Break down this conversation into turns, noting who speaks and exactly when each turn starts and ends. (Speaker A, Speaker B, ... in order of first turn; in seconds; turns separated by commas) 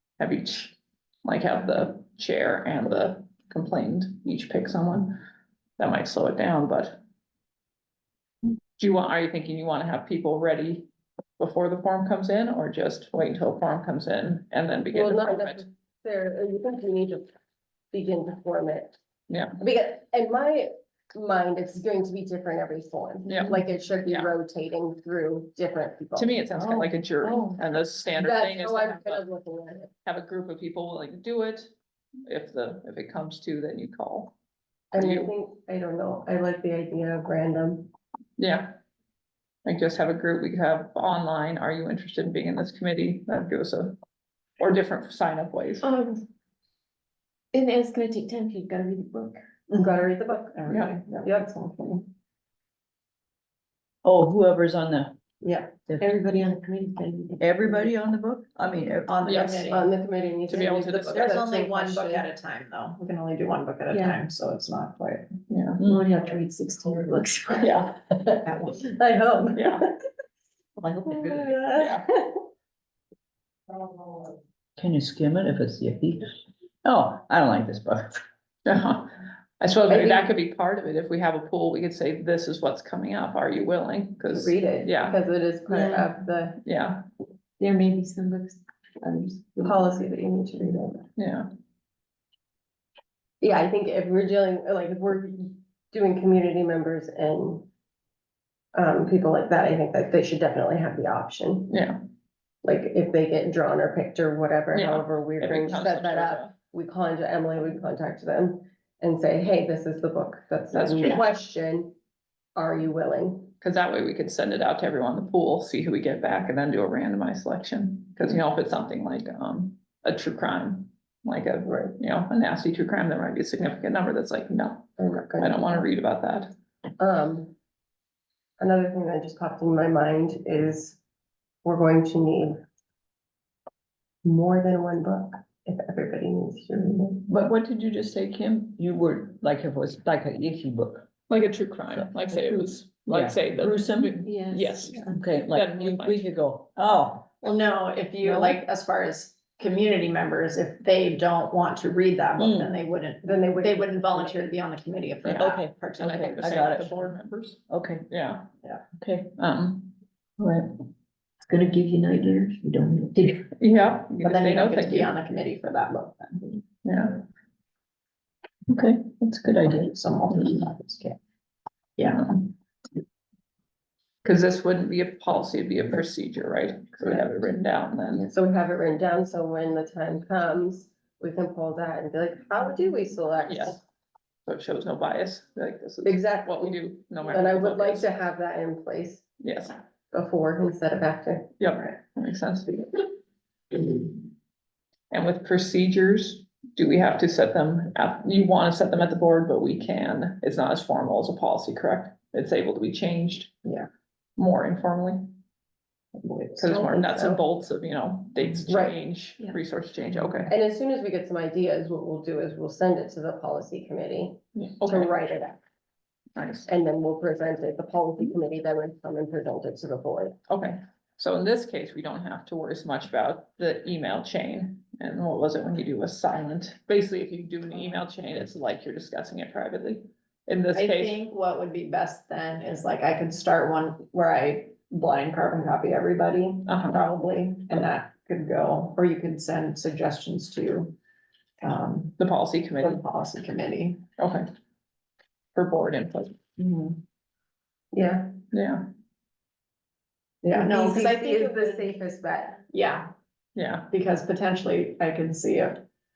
Speaker A: 0.2-5.2, Speaker A: 5.8-7.0, Speaker A: 8.8-15.7, Speaker B: 14.9-17.3, Speaker B: 17.9-19.0, Speaker A: 19.3-19.6, Speaker B: 19.6-26.3, Speaker A: 23.2-24.3, Speaker A: 26.1-29.2, Speaker C: 26.6-27.4, Speaker B: 28.2-29.9, Speaker A: 30.0-31.7, Speaker A: 32.3-34.3, Speaker B: 34.9-37.9, Speaker A: 35.0-35.3, Speaker A: 38.4-38.8, Speaker A: 39.6-44.0, Speaker A: 44.6-45.8, Speaker D: 45.8-46.2, Speaker D: 47.5-49.4, Speaker B: 49.8-51.5, Speaker E: 50.5-52.0, Speaker A: 50.7-51.0, Speaker C: 54.0-55.1, Speaker E: 55.4-55.8, Speaker D: 56.0-57.9, Speaker C: 57.4-59.2, Speaker E: 59.1-59.9, Speaker A: 59.2-59.7, Speaker B: 59.6-62.3, Speaker A: 60.5-61.4, Speaker E: 61.1-65.3, Speaker D: 63.9-64.2, Speaker A: 65.5-65.8, Speaker D: 65.8-67.9, Speaker A: 67.6-67.9, Speaker B: 68.2-69.9, Speaker E: 68.5-68.8, Speaker A: 69.5-69.8, Speaker E: 70.8-71.7, Speaker B: 71.2-72.3, Speaker A: 71.7-72.0, Speaker C: 74.8-76.2, Speaker C: 76.8-78.2, Speaker A: 78.6-85.2, Speaker B: 79.9-80.3, Speaker B: 84.3-86.6, Speaker D: 85.7-86.1, Speaker A: 86.6-87.0, Speaker D: 87.6-89.8, Speaker B: 89.6-91.1, Speaker A: 91.2-91.5, Speaker B: 93.4-97.7, Speaker B: 98.7-101.8, Speaker A: 101.7-102.0, Speaker B: 102.6-111.9, Speaker A: 104.7-106.5, Speaker A: 110.7-111.2, Speaker B: 112.5-113.5, Speaker A: 113.6-126.5, Speaker B: 121.7-122.0, Speaker B: 125.0-125.8, Speaker B: 127.0-127.5, Speaker B: 128.6-131.0, Speaker B: 131.6-132.6, Speaker B: 134.2-137.2, Speaker C: 137.3-141.1, Speaker A: 141.3-146.3, Speaker C: 141.9-147.3, Speaker D: 144.2-145.1, Speaker E: 147.4-156.7, Speaker C: 148.2-148.6, Speaker C: 152.4-152.8, Speaker B: 153.2-154.5, Speaker A: 155.2-158.5, Speaker C: 155.4-155.7, Speaker C: 156.4-157.0, Speaker C: 157.7-158.0, Speaker C: 159.0-159.3, Speaker A: 159.3-159.9, Speaker C: 160.4-160.7, Speaker C: 161.5-163.3, Speaker A: 163.6-165.1, Speaker E: 164.2-166.6, Speaker A: 166.8-167.2, Speaker C: 168.7-169.9, Speaker E: 169.7-171.2, Speaker E: 172.0-172.3, Speaker A: 172.1-172.4, Speaker A: 174.2-178.3, Speaker B: 178.3-183.8, Speaker A: 183.5-183.8, Speaker A: 184.4-188.1, Speaker B: 186.0-189.2, Speaker A: 189.4-189.8, Speaker B: 190.1-191.6, Speaker A: 191.6-193.1, Speaker A: 193.7-194.1, Speaker A: 195.1-203.6, Speaker A: 204.4-205.3, Speaker E: 206.2-206.7, Speaker A: 206.6-210.5, Speaker B: 206.7-207.4, Speaker B: 208.7-208.9, Speaker B: 210.5-215.6, Speaker A: 214.6-215.1, Speaker A: 216.3-216.7, Speaker B: 216.7-220.3, Speaker A: 220.5-231.2, Speaker E: 230.7-240.9, Speaker A: 236.7-237.0, Speaker E: 241.6-242.2, Speaker A: 242.2-243.0, Speaker E: 242.8-244.0, Speaker A: 244.2-244.5, Speaker A: 245.5-246.4, Speaker E: 246.6-247.0, Speaker B: 247.9-248.3, Speaker A: 248.5-248.8, Speaker E: 250.4-251.9, Speaker B: 250.5-252.6, Speaker E: 252.7-253.1, Speaker A: 253.5-253.9, Speaker E: 253.9-255.8